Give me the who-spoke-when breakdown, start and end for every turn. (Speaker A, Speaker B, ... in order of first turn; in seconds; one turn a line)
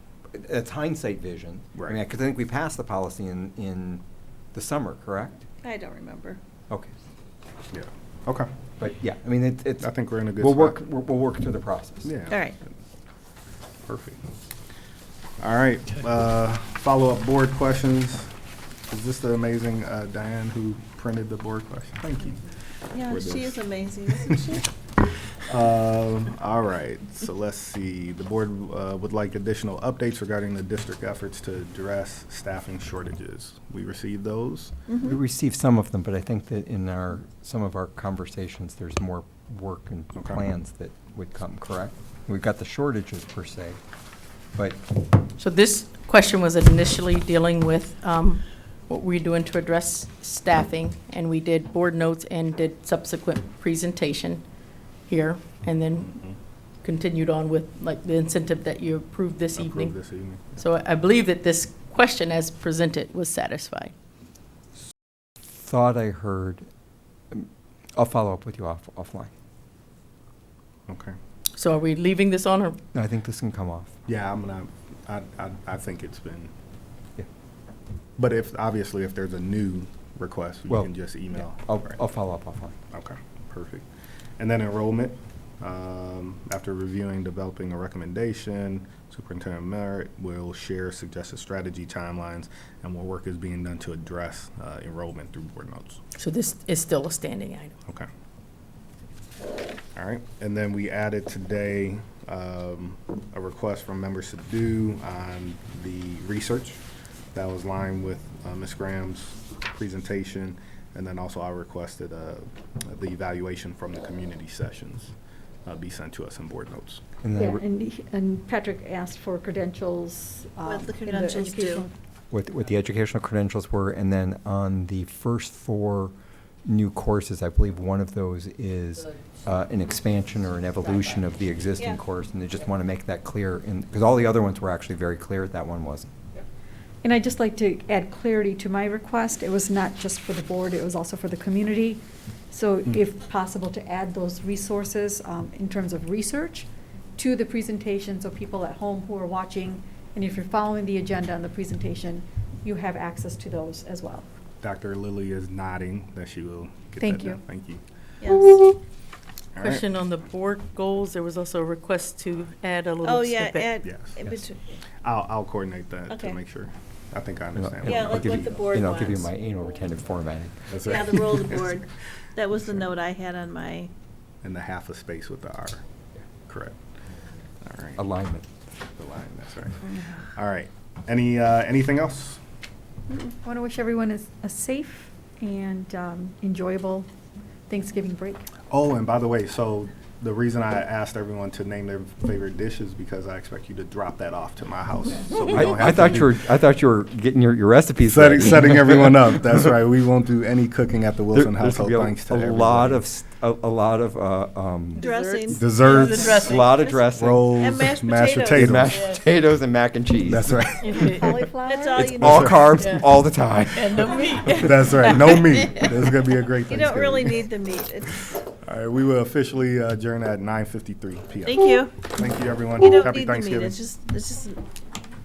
Speaker A: 0.3-4.0
Speaker A: 4.5-5.4
Speaker B: 5.6-6.4
Speaker C: 7.7-8.5
Speaker A: 8.8-12.1
Speaker C: 9.8-10.8
Speaker C: 12.0-12.4
Speaker B: 12.3-12.6
Speaker C: 13.8-14.2
Speaker C: 15.4-18.3
Speaker C: 18.9-22.4
Speaker B: 22.9-24.7
Speaker C: 23.0-24.5
Speaker C: 25.5-34.8
Speaker A: 35.0-43.8
Speaker C: 40.1-40.4
Speaker A: 44.5-44.8
Speaker D: 45.4-54.4
Speaker D: 55.1-56.1
Speaker C: 56.0-56.3
Speaker D: 56.8-59.9
Speaker C: 59.5-60.6
Speaker D: 60.5-63.9
Speaker A: 65.5-66.7
Speaker A: 67.3-69.3
Speaker C: 70.9-71.2
Speaker D: 71.5-72.8
Speaker A: 72.9-73.9
Speaker C: 74.0-76.5
Speaker C: 78.2-82.0
Speaker A: 80.7-82.7
Speaker C: 82.9-83.8
Speaker C: 84.4-96.0
Speaker D: 96.2-97.7
Speaker C: 99.9-106.8
Speaker C: 107.3-115.1
Speaker C: 115.7-117.0
Speaker A: 117.2-117.6
Speaker E: 117.3-121.9
Speaker B: 120.6-121.8
Speaker A: 122.3-126.1
Speaker A: 126.7-136.1
Speaker E: 137.0-154.2
Speaker C: 154.6-157.8
Speaker E: 157.0-157.4
Speaker B: 158.2-158.6
Speaker C: 159.6-159.8
Speaker D: 159.6-163.8
Speaker B: 163.0-164.6
Speaker C: 163.8-164.2
Speaker C: 165.0-168.6
Speaker B: 166.1-166.4
Speaker A: 167.6-170.8
Speaker B: 167.8-169.3
Speaker C: 170.7-171.8
Speaker B: 170.8-173.9
Speaker C: 172.5-172.9
Speaker C: 174.4-175.8
Speaker C: 176.5-176.8
Speaker C: 177.6-178.0
Speaker A: 178.0-178.4
Speaker C: 179.0-182.4
Speaker E: 183.4-187.1
Speaker E: 187.7-188.5
Speaker C: 188.7-196.4
Speaker A: 195.5-199.4
Speaker C: 198.1-203.0
Speaker A: 201.3-205.0
Speaker D: 204.9-207.0
Speaker B: 205.0-206.5
Speaker C: 205.5-209.1
Speaker A: 206.3-207.6
Speaker B: 207.6-208.7
Speaker A: 208.5-211.3
Speaker C: 210.2-211.2
Speaker E: 211.0-212.1
Speaker B: 211.7-212.7
Speaker A: 211.9-215.4
Speaker C: 212.2-213.0
Speaker D: 213.8-215.4
Speaker C: 214.5-217.5
Speaker B: 216.7-218.4
Speaker C: 218.5-223.8
Speaker B: 221.4-222.1
Speaker B: 222.8-224.6